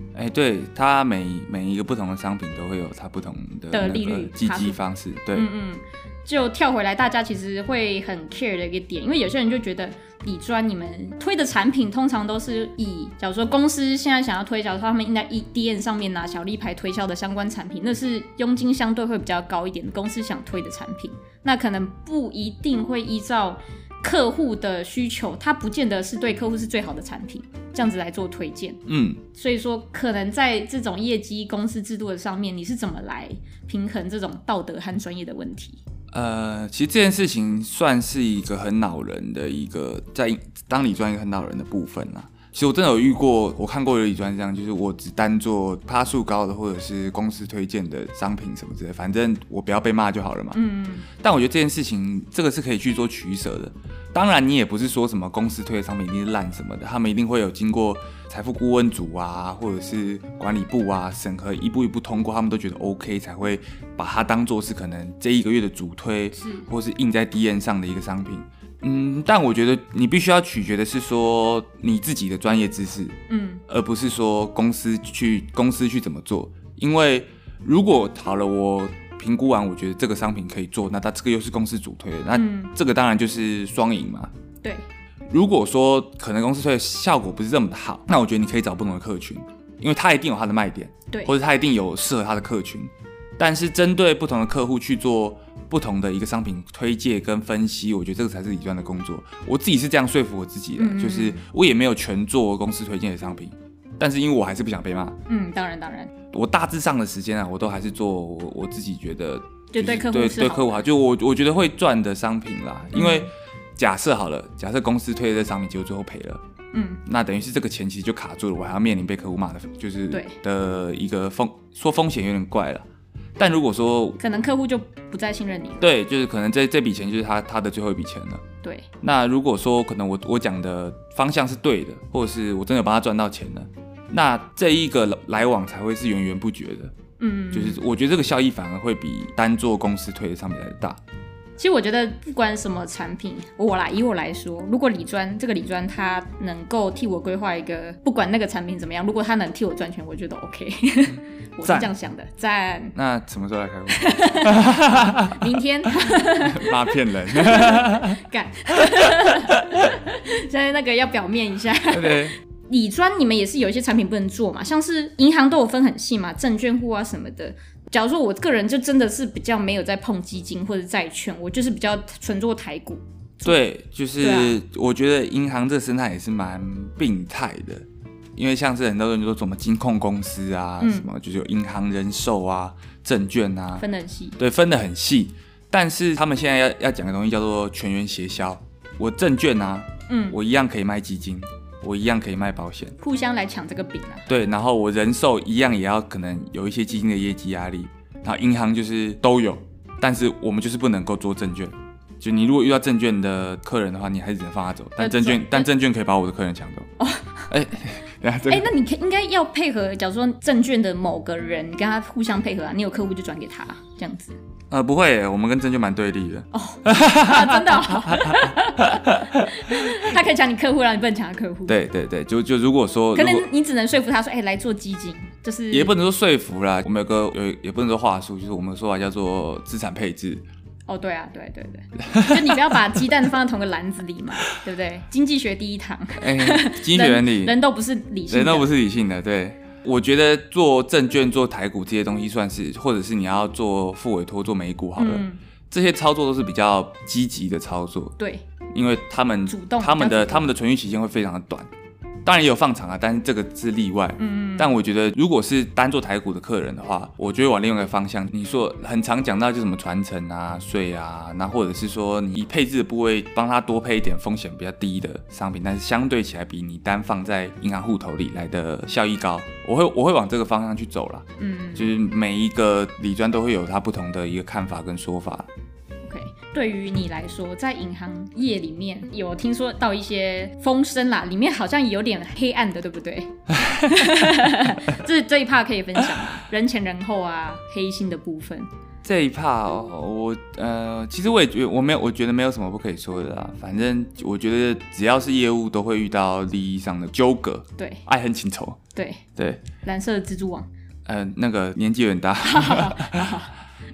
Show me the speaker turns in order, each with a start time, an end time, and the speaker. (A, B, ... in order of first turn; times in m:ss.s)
0:00.1-0:05.5 A
0:03.7-0:04.8 B
0:05.3-0:35.8 B
0:28.9-0:29.2 A
0:36.1-0:50.6 A
0:50.5-0:51.1 B
0:51.1-1:13.2 A
1:06.4-1:06.7 B
1:13.3-1:13.6 B
1:13.7-1:24.3 A
1:22.3-1:22.7 B
1:25.3-1:45.2 A
1:40.8-1:41.4 B
1:45.3-1:46.1 B
1:46.3-1:56.4 A
1:49.7-1:50.8 B
1:52.9-1:53.3 B
1:56.7-1:57.0 B
1:57.1-2:02.9 A
2:03.4-2:04.2 A
2:04.2-2:05.9 B
2:05.8-2:08.4 A
2:08.6-2:08.9 B
2:09.0-2:17.0 A
2:17.2-2:17.8 B
2:17.5-2:21.0 A
2:21.6-2:33.0 B
2:31.6-2:31.9 A
2:33.0-2:38.2 A
2:33.9-2:53.6 B
2:38.8-2:39.9 A
2:41.9-2:42.4 A
2:53.4-3:03.8 A
2:54.2-2:54.6 B
3:00.8-3:01.1 B
3:03.8-3:04.4 B
3:04.4-3:13.0 A
3:10.1-3:10.4 B
3:13.0-3:14.3 B
3:14.3-3:26.9 A
3:25.0-3:25.7 B
3:27.0-3:27.5 B
3:27.5-3:28.7 A
3:28.5-3:34.4 B
3:34.7-3:40.1 A
3:36.5-3:41.8 B
3:41.7-3:43.5 A
3:43.2-3:46.0 B
3:45.7-3:50.4 A
3:50.9-3:58.7 B
3:52.1-3:52.8 A
3:56.2-3:57.6 A
3:58.3-4:08.1 A
4:05.0-4:05.4 B
4:08.7-4:11.7 A
4:09.5-4:10.5 B
4:12.2-4:35.5 A
4:14.2-4:14.8 B
4:31.4-4:31.9 B
4:36.0-4:48.7 B
4:43.5-4:44.5 A
4:49.0-4:58.8 A
4:57.8-4:58.0 B
4:59.0-4:59.2 B
4:59.4-4:59.6 A
4:59.8-5:00.7 B
5:01.1-5:03.4 A
5:02.4-5:03.5 B